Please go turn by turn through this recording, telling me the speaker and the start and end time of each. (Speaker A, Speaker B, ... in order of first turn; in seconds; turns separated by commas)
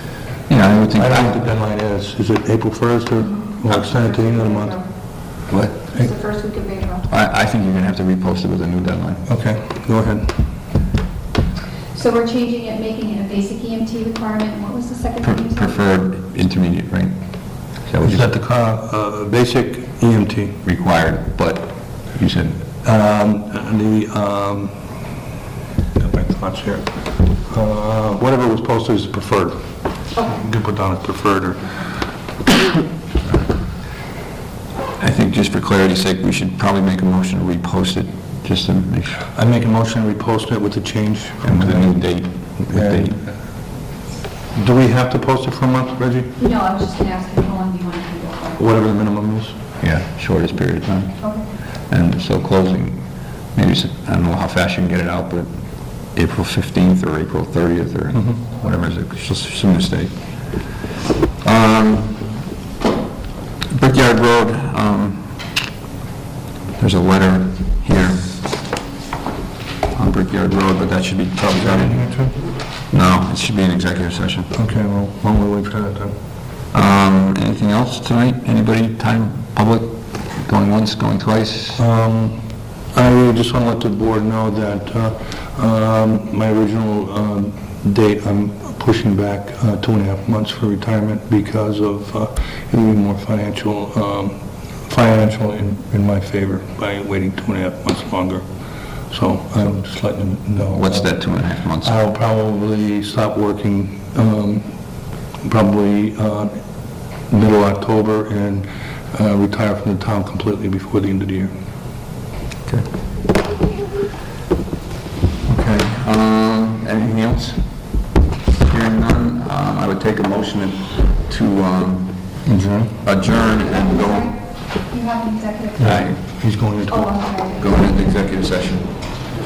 Speaker A: 0.5-1.4, Speaker B: 0.9-4.8, Speaker C: 4.1-4.9, Speaker A: 5.5-5.8, Speaker C: 5.9-7.1, Speaker A: 7.1-9.3, Speaker B: 9.3-10.4, Speaker C: 11.9-15.8, Speaker A: 15.2-18.3, Speaker B: 18.0-20.6, Speaker A: 20.6-22.6, Speaker B: 22.8-24.7, Speaker B: 25.9-29.6, Speaker B: 30.1-31.6, Speaker A: 35.0-39.2, Speaker B: 39.3-42.0, Speaker A: 41.4-43.2, Speaker B: 42.6-43.3, Speaker B: 44.5-46.4, Speaker C: 46.4-48.6, Speaker B: 48.6-49.6, Speaker A: 49.8-60.2, Speaker A: 61.4-62.4, Speaker A: 63.7-65.4, Speaker A: 66.8-68.4, Speaker A: 69.9-72.0, Speaker B: 71.4-72.4, Speaker A: 72.9-74.5, Speaker B: 74.5-76.1, Speaker A: 76.7-81.8, Speaker B: 81.8-98.5, Speaker B: 99.1-101.1, Speaker A: 100.7-102.0, Speaker B: 101.8-104.7, Speaker B: 105.4-106.6, Speaker B: 107.3-111.5, Speaker A: 115.5-117.8, Speaker A: 118.7-122.5, Speaker B: 122.5-123.0, Speaker A: 123.0-124.4, Speaker C: 124.8-125.8, Speaker B: 125.8-127.2, Speaker A: 125.8-126.2, Speaker C: 126.9-127.8, Speaker A: 127.6-129.2